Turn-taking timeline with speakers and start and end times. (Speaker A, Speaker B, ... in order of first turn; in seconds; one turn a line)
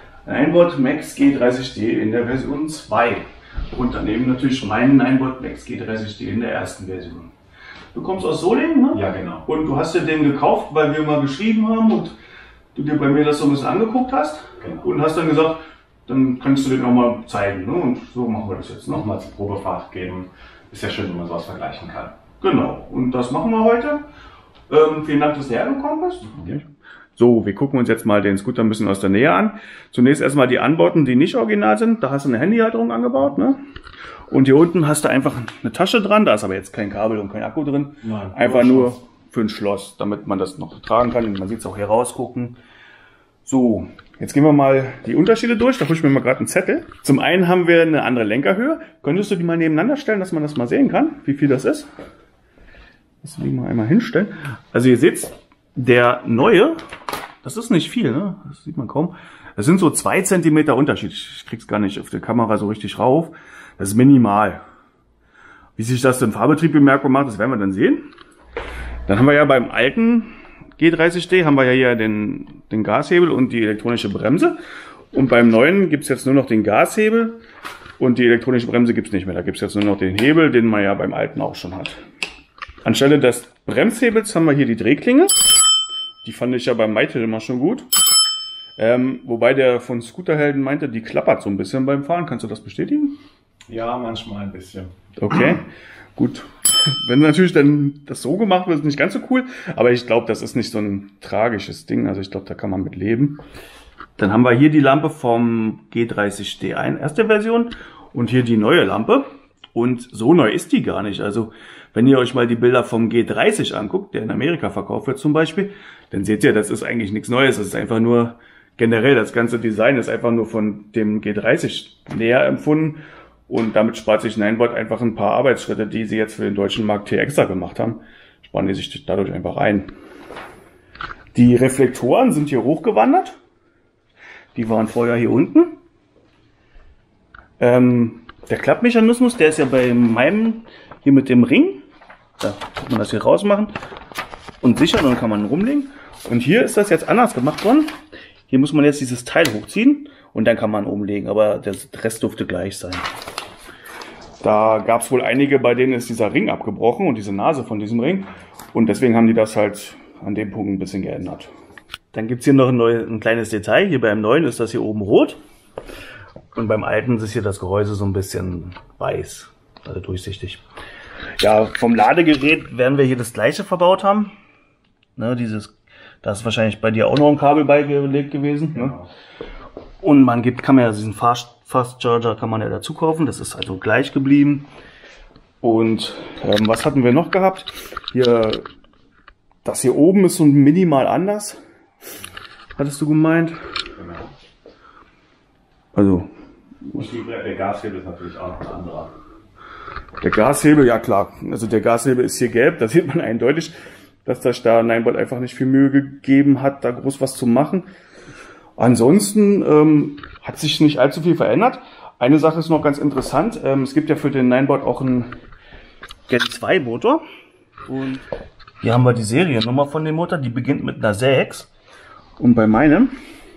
Speaker A: 0.2-7.3
Speaker A: 7.9-12.2
Speaker B: 8.9-9.4
Speaker A: 12.7-19.1
Speaker B: 18.9-22.1
Speaker A: 22.4-24.0
Speaker A: 24.7-33.6
Speaker A: 34.3-42.6
Speaker B: 38.0-39.0
Speaker A: 43.4-51.9
Speaker A: 53.2-56.8
Speaker A: 57.4-64.6
Speaker A: 65.8-68.1
Speaker A: 69.1-74.5
Speaker A: 75.1-77.4
Speaker A: 78.0-82.0
Speaker A: 82.8-85.4
Speaker A: 86.2-87.9
Speaker A: 88.8-93.2
Speaker B: 93.7-94.9
Speaker A: 95.2-103.4
Speaker A: 104.2-129.9
Speaker A: 131.3-133.4
Speaker A: 134.5-135.8
Speaker A: 137.6-141.8
Speaker A: 142.4-143.7
Speaker A: 144.6-147.9
Speaker A: 148.5-153.0
Speaker A: 154.4-161.5
Speaker A: 162.1-165.4
Speaker A: 166.5-170.6
Speaker A: 171.4-174.3
Speaker A: 175.2-179.0
Speaker A: 180.0-184.7
Speaker A: 185.6-188.7
Speaker A: 189.6-191.6
Speaker A: 192.8-193.6
Speaker B: 194.0-194.3
Speaker A: 195.9-196.3
Speaker A: 196.8-197.1
Speaker B: 196.9-199.2
Speaker A: 200.2-203.7
Speaker A: 204.2-207.9
Speaker A: 208.8-215.3
Speaker A: 216.3-217.2
Speaker A: 217.9-218.2
Speaker A: 218.8-221.7
Speaker A: 222.4-223.1